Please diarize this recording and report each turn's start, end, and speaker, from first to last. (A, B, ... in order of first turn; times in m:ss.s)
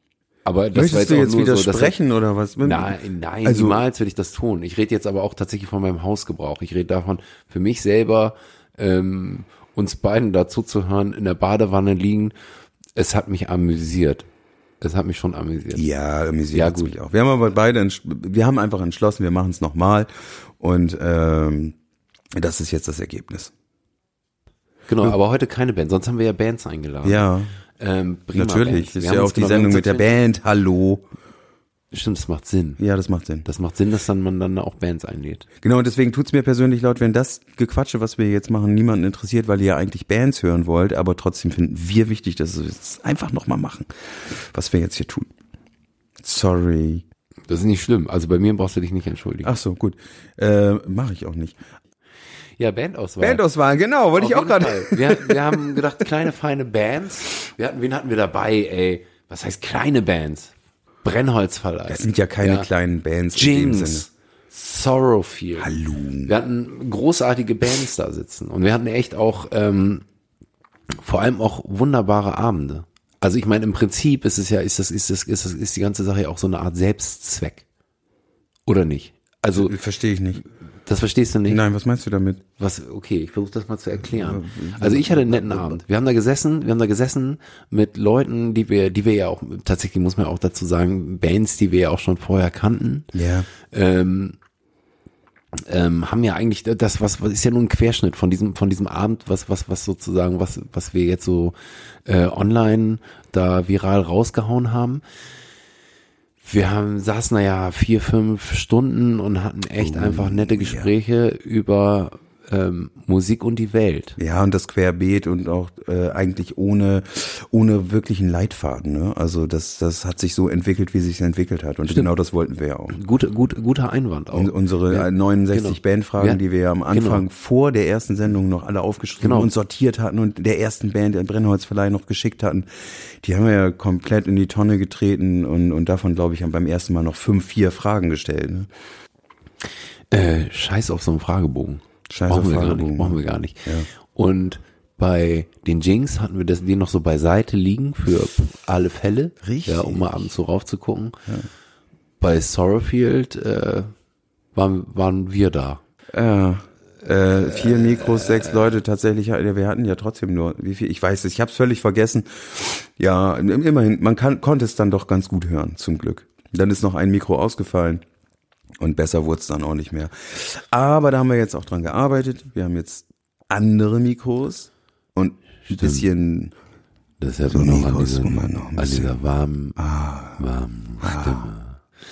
0:00.4-0:01.9 A
0:00.7-0:03.8 B
0:02.6-0:12.3 A
0:12.9-0:14.3 A
0:14.8-0:15.8 A
0:15.7-0:21.8 B
0:16.5-0:16.9 A
0:22.3-0:23.5 B
0:24.9-0:30.2 A
0:27.0-0:27.5 B
0:28.3-0:31.0 B
0:31.9-0:32.8 A
0:32.8-0:33.4 B
0:33.4-0:35.4 A
0:35.6-0:45.3 B
0:46.2-0:47.0 B
0:47.5-0:49.5 A
0:49.4-0:51.6 B
0:52.6-0:53.4 A
0:53.2-0:55.8 B
0:54.1-1:02.7 A
1:01.9-1:04.1 B
1:03.3-1:05.7 A
1:05.6-1:06.3 B
1:06.2-1:10.0 A
1:11.0-1:17.6 A
1:18.7-1:19.7 A
1:19.5-1:20.4 B
1:20.8-1:21.6 A
1:21.5-1:22.4 B
1:22.6-1:34.4 A
1:24.1-1:25.8 B
1:33.1-1:33.5 B
1:35.5-1:45.0 A
1:46.4-1:54.2 A
1:49.8-1:50.9 B
1:54.2-2:03.0 B
2:02.9-2:06.4 A
2:04.3-2:18.7 B
2:06.9-2:07.2 A
2:09.2-2:09.5 A
2:20.1-2:31.2 A
2:22.1-2:23.9 B
2:29.4-2:30.3 B
2:32.2-2:33.9 A
2:34.5-2:35.8 A
2:36.1-2:48.0 B
2:37.6-2:38.6 A
2:48.8-2:56.5 B
2:55.6-2:56.1 A
2:57.2-2:59.8 A
2:57.5-2:59.2 B
2:59.8-3:00.4 B
3:00.4-3:01.8 A
3:01.0-3:01.5 B